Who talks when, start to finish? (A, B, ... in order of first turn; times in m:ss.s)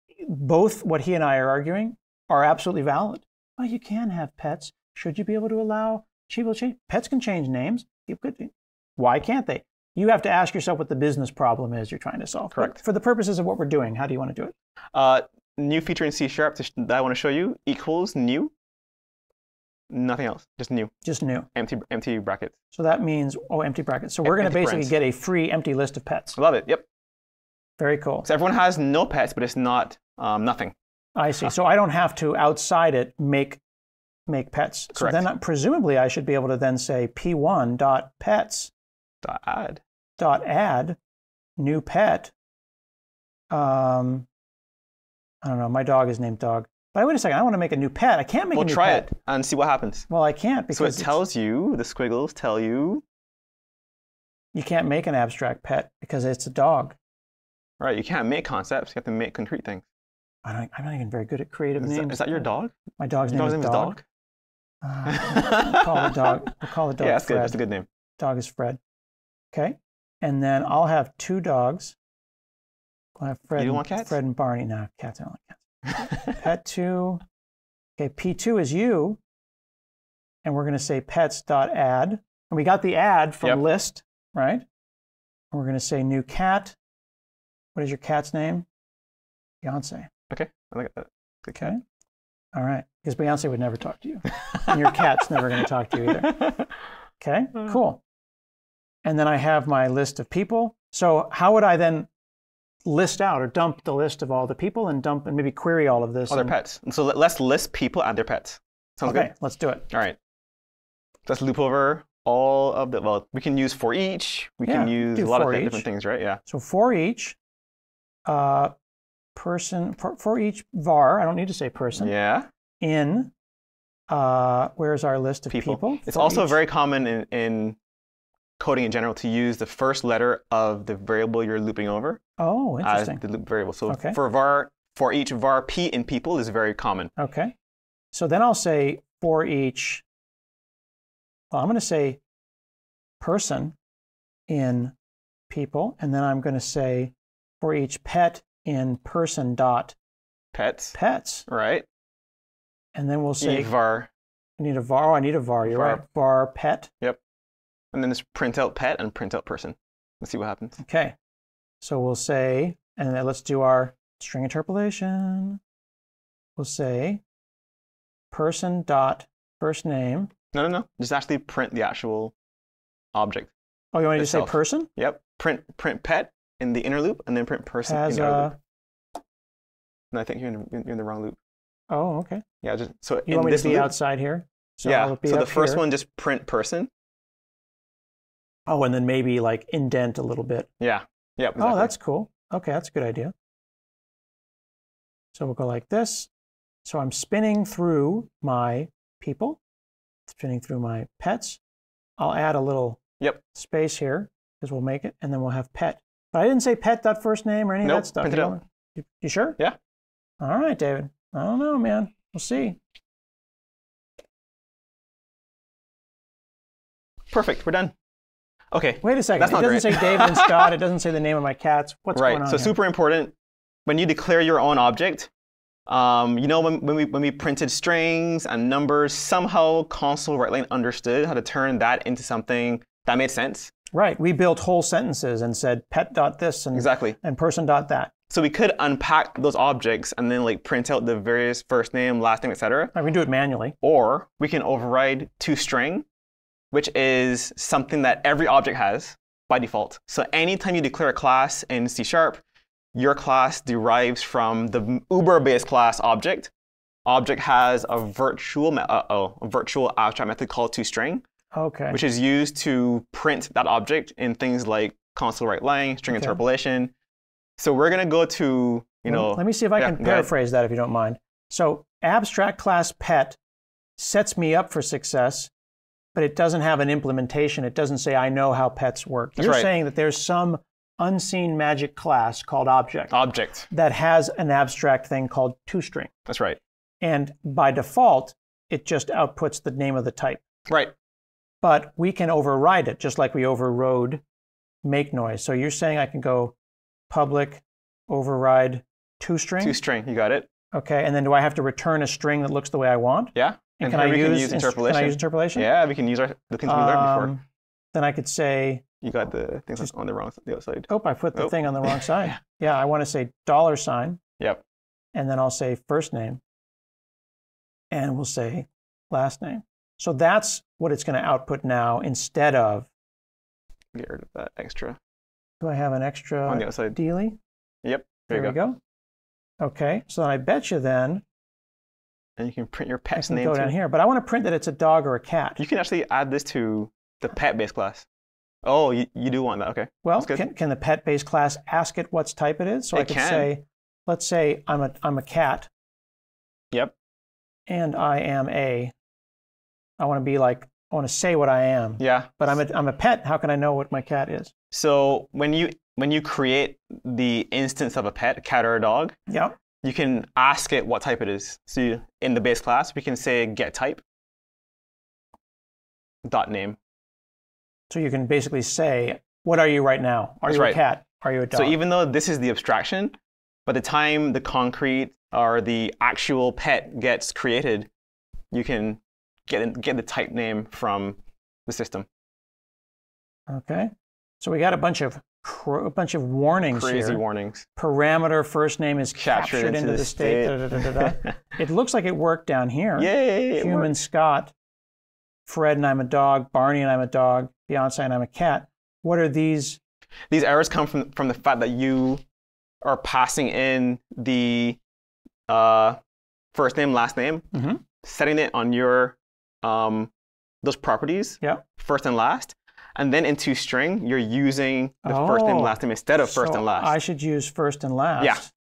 0:00.2-0:14.5 A
0:12.5-0:12.8 B
0:14.9-0:18.5 B
0:19.9-0:20.9 B
0:21.0-0:21.5 A
0:21.5-0:22.5 B
0:22.7-0:26.4 A
0:24.2-0:24.9 B
0:26.3-0:26.8 B
0:27.8-0:28.3 A
0:28.2-0:30.7 B
0:31.2-0:33.6 A
0:34.3-0:38.7 A
0:34.9-0:35.3 B
0:39.2-0:39.8 B
0:40.2-0:41.0 A
0:41.6-0:42.3 A
0:43.5-0:44.3 A
0:45.4-0:49.1 A
0:48.5-0:50.0 B
0:50.1-0:51.2 A
0:50.7-0:53.0 B
0:54.5-0:57.0 A
0:57.8-0:59.8 B
1:00.4-1:02.4 A
1:01.8-1:02.8 B
1:03.0-1:04.0 A
1:03.3-1:04.0 B
1:04.8-1:07.6 A
1:05.1-1:06.1 B
1:07.0-1:07.8 B
1:08.2-1:08.8 A
1:09.5-1:12.0 A
1:13.2-1:15.6 A
1:13.6-1:14.1 B
1:16.2-1:17.2 A
1:18.0-1:19.2 A
1:20.4-1:24.6 A
1:25.5-1:26.8 A
1:27.7-1:28.6 A
1:29.6-1:30.1 A
1:30.3-1:31.7 B
1:31.6-1:31.8 A
1:32.5-1:36.4 A
1:36.1-1:36.7 B
1:37.2-1:38.0 A
1:39.0-1:42.1 A
1:42.8-1:46.5 A
1:46.3-1:49.3 B
1:49.0-1:49.8 A
1:49.9-1:50.2 B
1:51.2-1:56.4 B
1:54.6-1:55.8 A
1:56.4-1:57.4 A
1:58.2-1:58.7 A
1:59.3-2:02.1 A
2:02.0-2:02.5 B
2:02.8-2:03.3 A
2:04.1-2:06.6 A
2:05.5-2:07.8 B
2:08.6-2:12.2 B
2:12.4-2:13.2 A
2:12.8-2:17.1 B
2:13.9-2:14.2 A
2:17.2-2:17.5 A
2:18.1-2:20.0 A
2:21.5-2:22.2 A
2:23.2-2:23.8 A
2:24.5-2:24.9 A
2:25.5-2:30.0 A
2:30.5-2:31.0 B
2:30.9-2:31.5 A
2:31.5-2:31.8 B
2:32.9-2:33.7 A
2:33.4-2:34.1 B
2:34.6-2:36.9 A
2:35.6-2:36.0 B
2:37.9-2:40.8 B
2:40.8-2:41.1 A
2:41.8-2:45.6 A
2:46.6-2:47.2 A
2:48.3-2:50.3 A
2:50.5-2:52.3 B
2:53.1-2:53.5 B
2:53.9-2:54.9 A
2:54.2-2:58.5 B
2:57.8-2:58.6 A
3:00.1-3:01.4 B
3:01.9-3:02.4 A
3:02.6-3:03.9 B
3:03.2-3:05.8 A
3:04.8-3:06.9 B
3:08.7-3:10.7 A
3:10.8-3:11.9 B
3:11.6-3:13.3 A
3:15.3-3:16.3 A
3:16.8-3:19.6 A
3:20.3-3:21.6 A
3:22.2-3:23.0 A
3:23.5-3:29.6 A
3:27.8-3:28.6 B
3:30.4-3:32.8 A
3:37.3-3:37.9 B
3:38.7-3:40.7 B
3:39.0-3:42.8 A
3:42.1-3:43.3 B
3:43.8-3:45.3 B
3:45.9-3:53.7 B
3:53.9-3:58.1 A
3:56.7-3:57.2 B
3:58.3-4:02.9 B
4:02.9-4:03.7 A
4:03.8-4:06.0 B
4:06.7-4:12.4 B
4:12.9-4:16.5 B
4:17.0-4:21.2 B
4:21.5-4:22.0 A
4:21.9-4:26.9 B
4:26.1-4:26.4 A
4:27.6-4:30.3 B
4:29.1-4:33.4 A
4:34.0-4:35.5 A
4:36.1-4:43.2 A
4:39.4-4:39.7 B
4:43.1-4:43.7 B
4:43.7-4:46.1 A
4:46.3-4:46.6 B
4:47.0-4:50.4 A
4:50.7-4:50.9 B
4:51.6-4:54.2 A
4:54.8-4:56.5 A
4:57.1-4:59.8 A
4:59.6-5:00.5 B
5:00.7-5:05.7 A
5:03.3-5:07.3 B
5:06.6-5:07.4 A
5:07.9-5:08.8 A
5:09.0-5:12.4 B
5:10.9-5:14.2 A
5:15.1-5:16.4 A
5:17.9-5:22.9 A
5:23.9-5:25.0 B
5:25.6-5:27.4 A
5:26.5-5:27.0 B
5:27.8-5:28.6 B
5:28.3-5:28.8 A
5:29.6-5:31.2 A
5:32.4-5:33.7 B
5:33.1-5:35.6 A
5:35.6-5:38.0 B
5:38.6-5:40.4 B
5:40.0-5:45.7 A
5:42.9-5:43.5 B
5:47.7-5:48.9 A
5:50.0-5:54.5 A
5:52.0-5:52.3 B
5:54.7-5:59.1 B
5:59.3-5:59.6 A
5:59.8-6:04.0 B
6:06.2-6:06.8 B
6:07.9-6:11.8 A
6:10.5-6:10.8 B
6:11.5-6:13.1 B
6:13.6-6:17.9 B
6:18.5-6:22.1 B
6:23.5-6:27.2 A
6:26.7-6:27.6 B
6:27.8-6:34.5 A
6:29.2-6:31.3 B
6:33.0-6:34.0 B
6:35.4-6:39.8 A
6:40.3-6:42.2 B
6:42.8-6:44.8 B
6:45.5-6:46.0 B
6:46.5-6:47.4 B
6:47.5-6:47.8 A
6:48.0-6:50.1 B
6:50.6-6:56.9 B
6:55.0-6:58.5 A
6:58.2-6:58.4 B